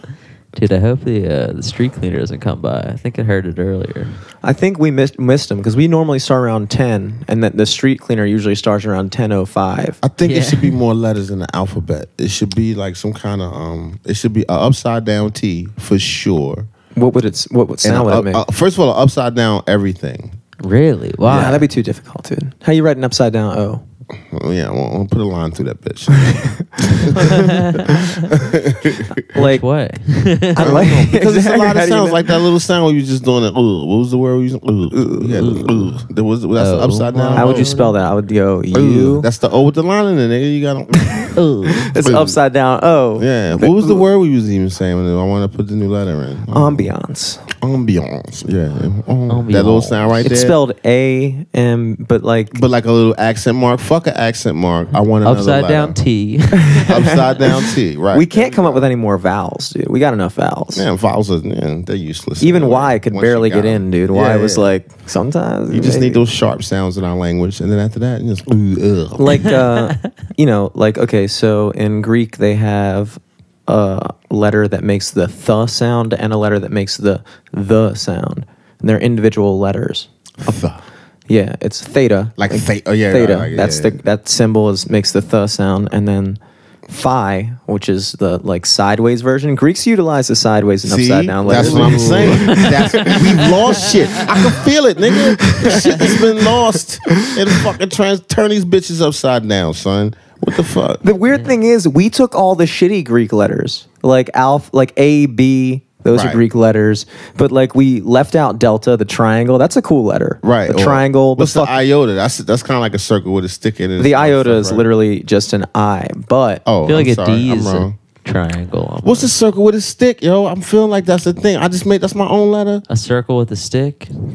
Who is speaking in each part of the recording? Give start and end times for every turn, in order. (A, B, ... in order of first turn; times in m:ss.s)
0:00.5-0:04.1 A
0:04.4-0:10.0 B
0:10.0-0:16.7 C
0:10.2-0:10.8 A
0:17.0-0:18.4 B
0:17.8-0:20.4 C
0:20.6-0:21.6 A
0:21.2-0:23.8 B
0:21.3-0:21.6 C
0:24.2-0:29.2 C
0:26.1-0:27.5 B
0:27.0-0:28.4 A
0:29.1-0:29.6 B
0:29.3-0:31.0 A
0:30.5-0:32.4 B
0:30.6-0:37.8 C
0:34.9-0:35.6 B
0:35.4-0:35.9 A
0:36.6-0:38.0 A
0:37.3-0:39.3 B
0:38.7-0:41.3 C
0:41.2-0:44.0 B
0:41.3-0:41.9 A
0:42.0-0:42.4 C
0:43.2-0:46.9 C
0:46.5-0:47.5 B
0:47.5-0:50.6 C
0:49.3-0:50.3 A
0:50.2-0:52.6 B
0:52.5-0:56.0 C
0:55.2-0:56.9 A
0:56.6-1:00.8 B
0:56.8-0:58.9 C
1:00.7-1:04.7 C
1:02.4-1:06.2 B
1:05.7-1:09.6 C
1:09.2-1:20.7 B
1:20.4-1:20.8 C
1:21.3-1:37.6 B
1:22.4-1:24.0 C
1:30.8-1:41.0 C
1:31.5-1:34.2 A
1:41.0-1:51.7 B
1:46.1-1:46.4 C
1:50.4-1:54.9 C
1:54.0-1:56.6 B
1:56.6-1:57.9 C
1:56.8-1:59.3 A
1:59.0-2:02.8 C
2:02.9-2:04.1 A